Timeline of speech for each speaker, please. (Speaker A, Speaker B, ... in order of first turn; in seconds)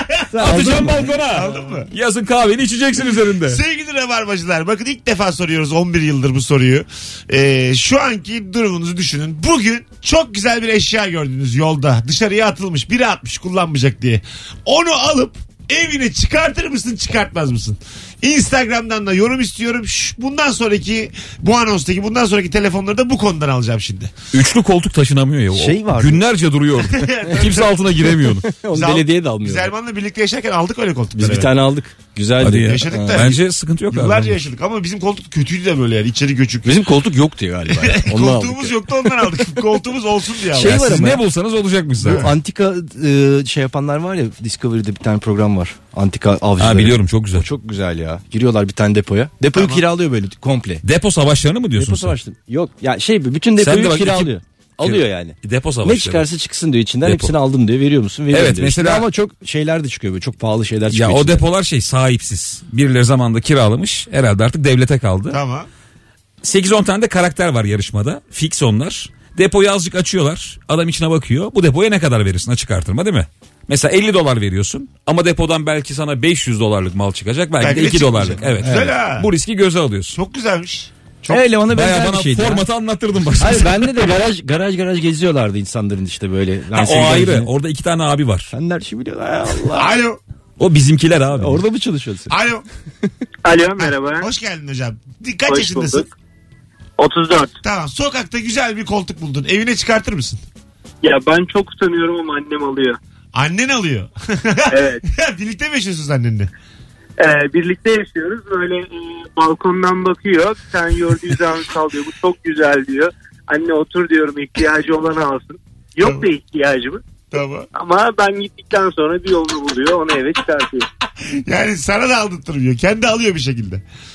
Speaker A: 0.3-1.1, 25.5-26.2, 28.5-29.7, 31.2-33.4, 36.6-38.7, 40.5-41.2, 42.0-50.8, 51.8-61.4, 81.3-82.6, 83.4-87.5, 88.5-89.9, 91.3-92.3
Speaker B: 0.4-3.6, 24.3-28.5, 32.4-34.4, 40.5-42.2, 46.6-47.5, 50.8-52.1, 53.6-54.3, 54.8-56.2, 57.0-57.3, 58.3-59.0, 60.9-65.4, 66.4-80.2, 81.7-83.9, 86.7-88.5, 90.6-91.6
Speaker C: 1.3-1.9, 3.4-24.1, 26.9-27.8, 28.7-31.5, 32.6-33.4, 33.9-36.8, 37.7-40.8, 42.0-42.3, 49.5-49.8, 65.3-65.7, 77.6-79.3, 80.1-81.4, 89.7-90.2, 92.3-92.6, 93.8-96.0, 97.6-100.4, 103.3-106.5, 117.3-117.7, 121.2-123.8
Speaker D: 93.4-94.3, 95.5-96.1, 97.0-97.5, 101.0-103.0, 104.7-105.0, 107.2-117.0, 117.7-120.8